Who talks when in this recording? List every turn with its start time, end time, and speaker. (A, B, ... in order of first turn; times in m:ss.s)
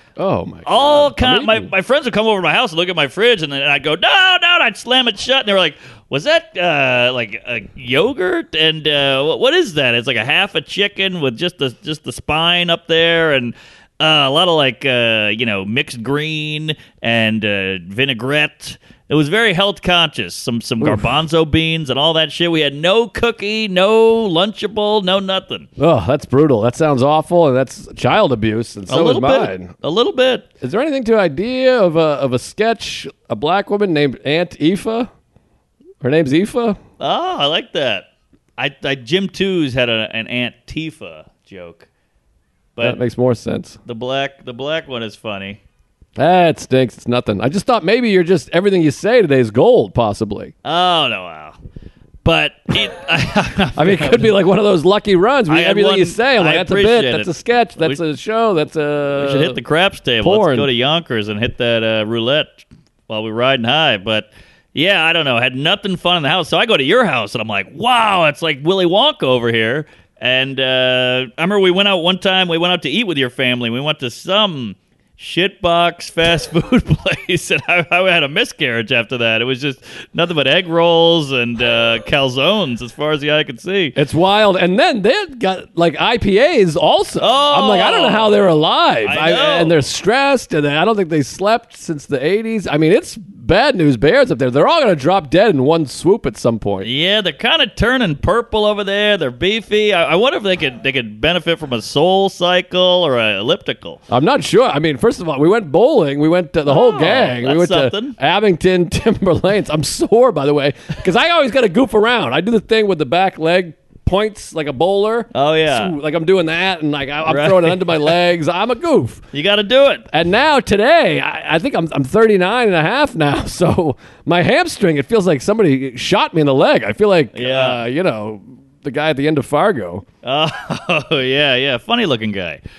0:00.2-0:01.7 A
0:00.6-0:25.7 B
0:20.8-0:21.1 A
0:25.8-0:29.7 A
0:28.9-0:30.5 B
0:30.6-0:35.1 A
0:36.0-0:36.8 A
0:37.0-0:41.9 B
0:42.8-0:43.8 A
0:43.9-0:45.6 B
0:46.2-0:50.5 A
0:50.6-0:51.6 B
0:52.2-0:54.3 B
0:53.8-0:59.6 A
0:55.5-0:58.0 B
0:59.2-1:24.0 B
1:00.2-1:00.7 A
1:24.0-1:36.9 A
1:27.2-1:28.5 B
1:29.0-1:29.8 B
1:36.8-1:44.0 B
1:44.1-1:59.2 A
1:46.7-1:48.2 B
1:55.3-1:55.9 B
1:57.3-1:58.2 B
1:59.3-2:00.1 B
2:00.1-2:10.0 A
2:07.3-2:07.8 B
2:10.2-2:12.6 B